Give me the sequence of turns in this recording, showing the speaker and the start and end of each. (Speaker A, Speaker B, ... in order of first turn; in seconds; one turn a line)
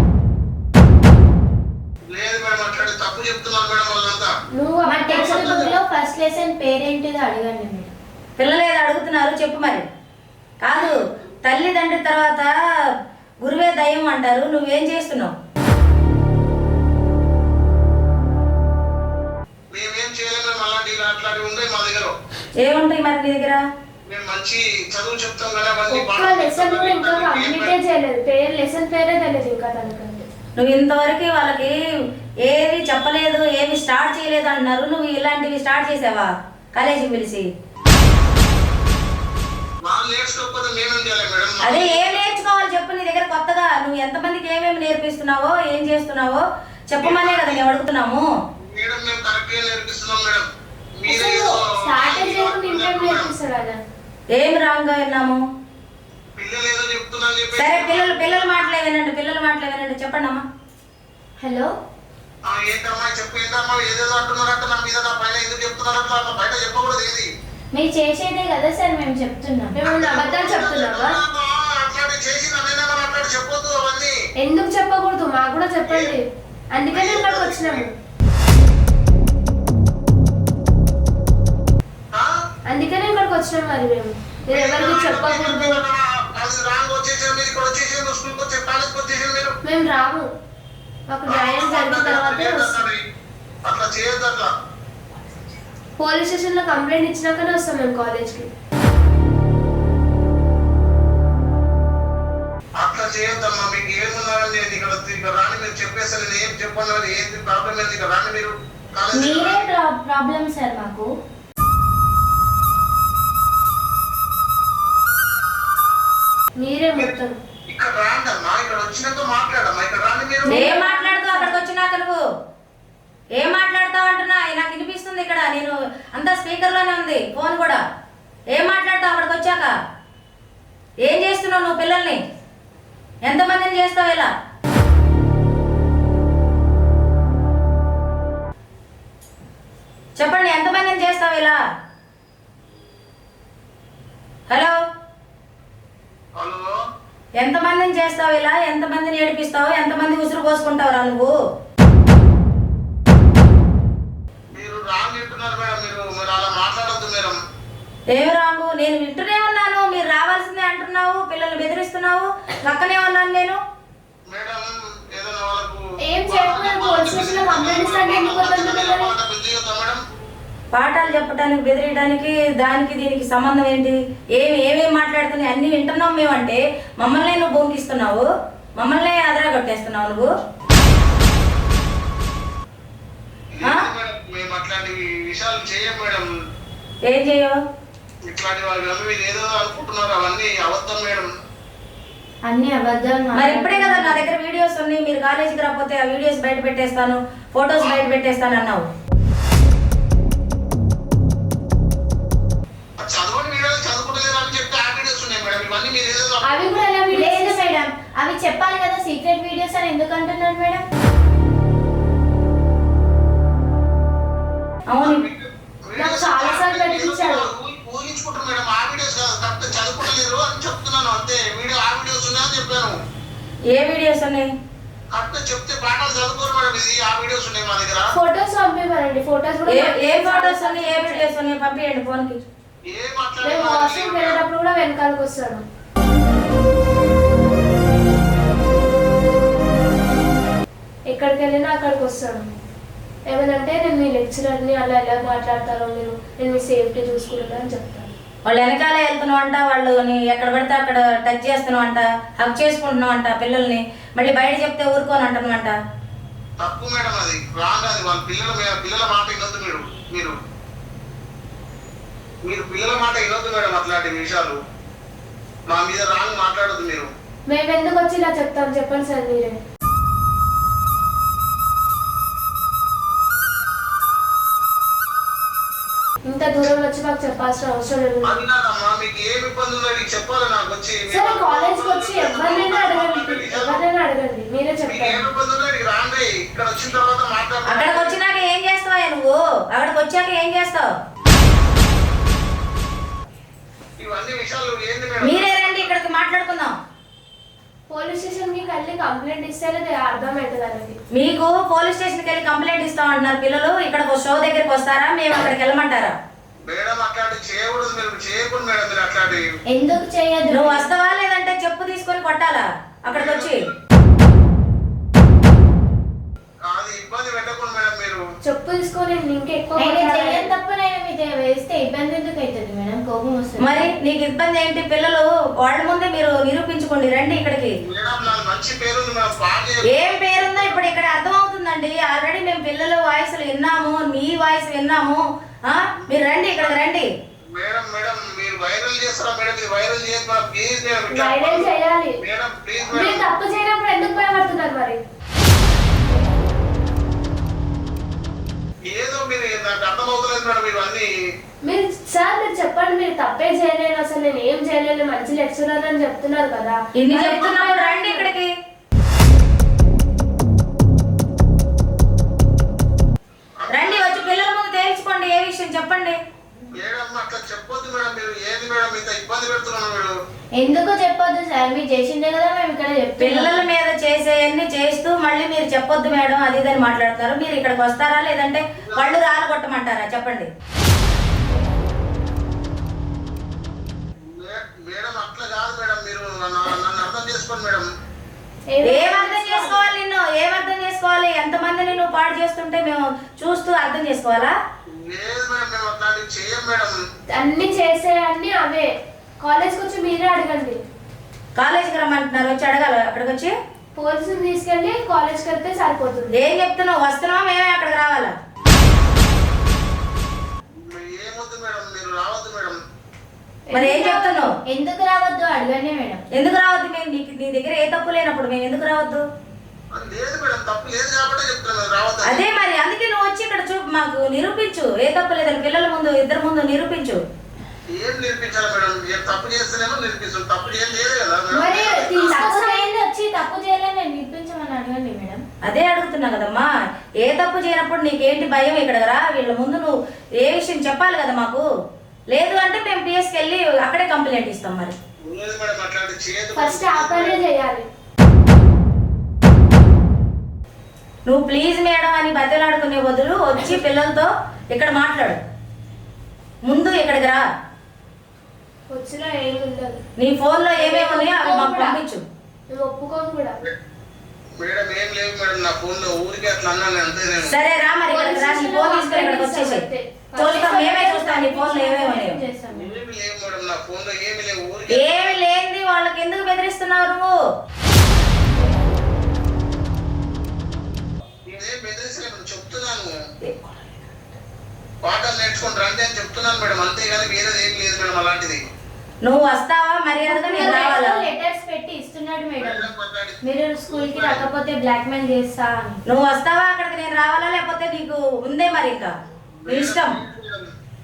Speaker A: 2.1-4.3
Speaker B: 4.5-5.7
Speaker C: 4.8-7.9
Speaker A: 5.1-5.7
Speaker D: 8.4-9.8
Speaker D: 10.6-12.5
Speaker A: 10.8-11.1
Speaker D: 13.4-15.3
Speaker A: 19.7-22.1
Speaker D: 22.6-23.6
Speaker A: 24.1-27.7
Speaker B: 25.9-30.3
Speaker D: 30.6-31.7
Speaker D: 32.5-37.5
Speaker A: 39.8-42.2
Speaker D: 41.6-48.3
Speaker A: 47.0-47.6
Speaker A: 48.6-50.5
Speaker A: 51.0-53.3
Speaker B: 51.0-53.8
Speaker D: 54.3-55.4
Speaker A: 56.4-58.6
Speaker D: 57.5-60.4
Speaker C: 61.4-61.7
Speaker A: 62.5-67.3
Speaker C: 67.7-69.7
Speaker B: 69.7-71.2
Speaker A: 69.8-74.1
Speaker B: 74.4-76.2
Speaker A: 75.8-76.1
Speaker B: 76.7-77.9
Speaker A: 76.9-77.9
Speaker B: 82.7-85.8
Speaker A: 84.5-89.5
Speaker B: 89.7-90.3
Speaker B: 91.1-92.9
Speaker A: 91.3-93.0
Speaker A: 93.6-94.5
Speaker B: 96.0-98.5
Speaker A: 102.8-109.7
Speaker C: 109.1-111.1
Speaker B: 116.6-117.4
Speaker A: 117.7-120.6
Speaker D: 120.5-122.2
Speaker B: 120.5-121.5
Speaker C: 120.6-120.8
Speaker D: 123.4-127.8
Speaker D: 128.5-129.7
Speaker D: 131.0-132.2
Speaker D: 133.2-134.3
Speaker D: 140.2-141.6
Speaker D: 144.5-144.8
Speaker A: 146.4-146.7
Speaker D: 147.4-151.3
Speaker A: 154.5-157.4
Speaker D: 158.1-163.6
Speaker A: 164.3-170.0
Speaker B: 166.0-169.1
Speaker D: 170.7-178.2
Speaker D: 178.8-180.3
Speaker A: 183.5-186.2
Speaker D: 187.1-187.6
Speaker A: 188.3-191.3
Speaker C: 192.4-194.3
Speaker D: 193.3-198.8
Speaker A: 203.0-206.8
Speaker B: 206.4-207.7
Speaker C: 207.1-210.8
Speaker D: 214.9-215.2
Speaker A: 215.0-222.9
Speaker B: 216.0-217.5
Speaker D: 223.7-224.5
Speaker A: 225.1-228.1
Speaker B: 228.1-231.3
Speaker D: 229.7-232.4
Speaker A: 232.9-234.4
Speaker B: 233.4-235.6
Speaker B: 241.1-242.5
Speaker B: 243.3-248.1
Speaker D: 248.5-255.7
Speaker A: 256.6-260.3
Speaker A: 262.4-264.6
Speaker A: 265.7-267.1
Speaker B: 267.5-269.5
Speaker B: 276.3-278.3
Speaker A: 278.2-283.8
Speaker B: 281.1-285.2
Speaker A: 284.8-288.2
Speaker D: 287.7-290.9
Speaker A: 294.0-295.9
Speaker D: 295.2-296.7
Speaker B: 297.9-300.9
Speaker D: 301.1-306.1
Speaker A: 306.7-309.4
Speaker C: 309.7-310.9
Speaker D: 310.5-313.6
Speaker A: 313.1-313.7
Speaker A: 316.7-318.2
Speaker B: 318.4-320.5
Speaker C: 319.8-323.9
Speaker D: 323.6-327.7
Speaker A: 327.8-330.7
Speaker D: 329.9-337.1
Speaker A: 336.1-336.8
Speaker A: 337.5-343.3
Speaker B: 341.1-342.2
Speaker B: 342.9-345.0
Speaker A: 348.9-351.1
Speaker B: 351.6-358.3
Speaker D: 357.0-358.5
Speaker A: 363.6-364.4
Speaker D: 363.7-366.2
Speaker A: 366.8-370.1
Speaker C: 370.6-373.6
Speaker D: 373.2-380.5
Speaker A: 378.8-379.2
Speaker A: 384.2-387.9
Speaker B: 388.7-389.8
Speaker D: 388.8-394.5
Speaker A: 394.9-396.9
Speaker B: 397.4-398.9
Speaker B: 399.4-400.8
Speaker D: 401.6-403.5
Speaker B: 403.9-406.3
Speaker D: 406.4-408.3
Speaker A: 410.7-412.8
Speaker B: 413.7-414.5
Speaker D: 413.7-414.5
Speaker C: 414.7-416.2
Speaker D: 416.3-419.2
Speaker A: 419.9-422.5
Speaker D: 422.2-427.2
Speaker A: 427.9-432.5
Speaker C: 431.5-435.4
Speaker B: 431.7-432.9
Speaker D: 435.6-436.7
Speaker D: 437.2-441.6
Speaker D: 442.3-444.9
Speaker A: 445.3-447.4
Speaker B: 446.6-447.8
Speaker D: 451.2-455.4
Speaker D: 456.6-457.4
Speaker B: 458.9-460.0
Speaker D: 460.2-462.2
Speaker B: 460.8-461.9
Speaker C: 461.6-461.9
Speaker B: 462.7-463.5
Speaker A: 464.6-467.6
Speaker D: 467.4-469.8
Speaker B: 468.1-471.4
Speaker D: 470.4-472.4
Speaker C: 470.8-472.9
Speaker A: 472.7-475.4
Speaker D: 474.9-477.3
Speaker A: 481.5-483.1
Speaker A: 485.0-488.6
Speaker D: 489.2-491.2
Speaker C: 490.2-492.9
Speaker A: 492.6-494.5
Speaker C: 493.4-496.0
Speaker D: 496.1-499.1
Speaker A: 499.6-500.7
Speaker D: 499.7-500.1